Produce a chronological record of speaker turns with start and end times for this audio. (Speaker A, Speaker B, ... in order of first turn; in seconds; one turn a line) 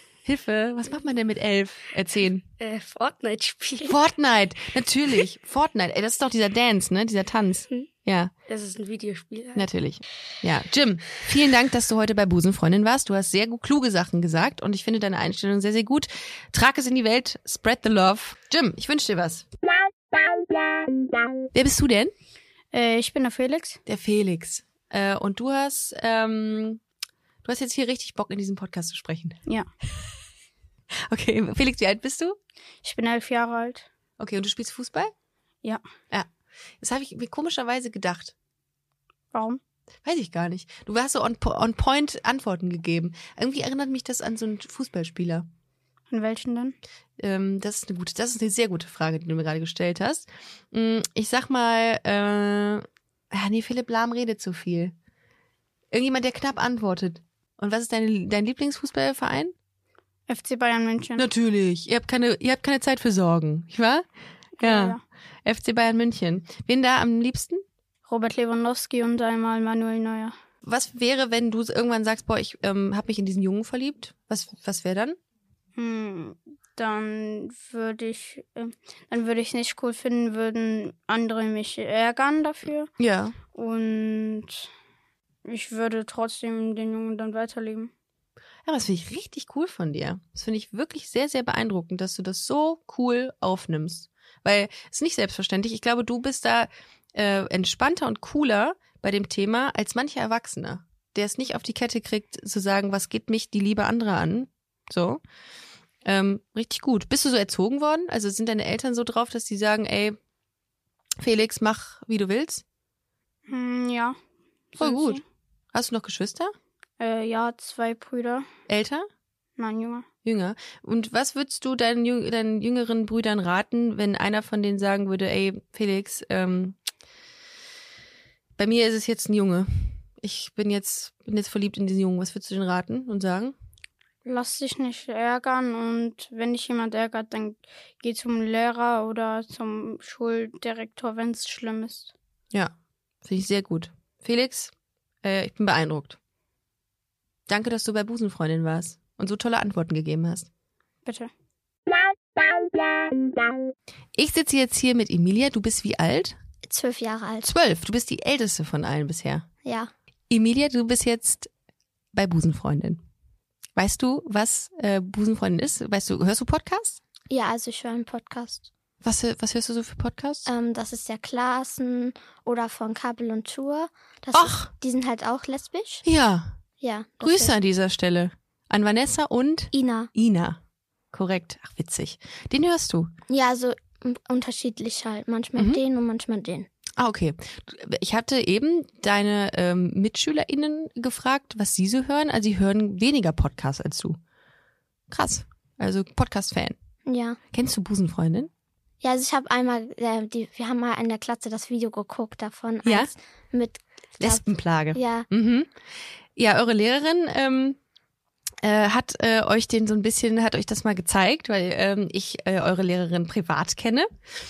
Speaker A: 0.2-2.5
Speaker B: 2.6-4.0
Speaker A: 3.9-8.3
Speaker B: 8.5-9.7
Speaker A: 9.6-19.4
Speaker A: 21.5-22.1
Speaker C: 22.7-23.8
Speaker A: 23.9-26.8
Speaker A: 27.4-29.4
Speaker A: 31.1-32.4
Speaker C: 32.8-33.9
Speaker A: 34.2-35.1
Speaker A: 36.8-38.3
Speaker C: 39.3-39.6
Speaker A: 40.0-45.5
Speaker C: 46.1-46.8
Speaker A: 47.2-54.9
Speaker A: 55.9-59.5
Speaker C: 60.3-61.2
Speaker A: 61.2-64.0
Speaker C: 64.6-65.0
Speaker A: 64.6-67.6
Speaker C: 68.1-70.3
Speaker A: 70.6-75.2
Speaker C: 75.8-82.9
Speaker A: 83.0-83.4
Speaker C: 83.5-84.7
Speaker C: 85.5-87.9
Speaker A: 88.7-105.2
Speaker A: 106.0-110.2
Speaker A: 111.2-112.6
Speaker C: 113.5-114.2
Speaker C: 114.7-115.2
Speaker A: 114.8-115.2
Speaker A: 115.7-116.5
Speaker C: 117.0-118.5
Speaker A: 118.7-119.1
Speaker C: 119.6-120.1
Speaker A: 120.2-126.8
Speaker A: 128.6-133.6
Speaker C: 134.2-142.1
Speaker A: 142.5-144.7
Speaker A: 145.2-146.2
Speaker A: 147.5-150.5
Speaker C: 151.1-151.3
Speaker A: 154.2-156.4
Speaker D: 156.6-157.5
Speaker A: 157.4-159.5
Speaker D: 159.6-159.9
Speaker A: 160.3-161.5
Speaker A: 162.1-163.0
Speaker A: 163.8-167.0
Speaker D: 167.3-168.7
Speaker A: 169.0-170.5
Speaker D: 170.5-176.1
Speaker A: 174.3-174.7
Speaker A: 176.0-176.6
Speaker D: 176.8-177.5
Speaker A: 177.2-180.6
Speaker D: 179.7-180.1
Speaker A: 181.1-183.1
Speaker D: 183.3-186.7
Speaker A: 185.6-185.8
Speaker A: 187.0-194.2
Speaker A: 195.1-196.8
Speaker D: 197.1-197.4
Speaker A: 197.5-198.5
Speaker D: 199.0-205.3
Speaker A: 202.8-203.1
Speaker A: 204.2-205.7
Speaker A: 206.4-207.8
Speaker A: 208.6-214.1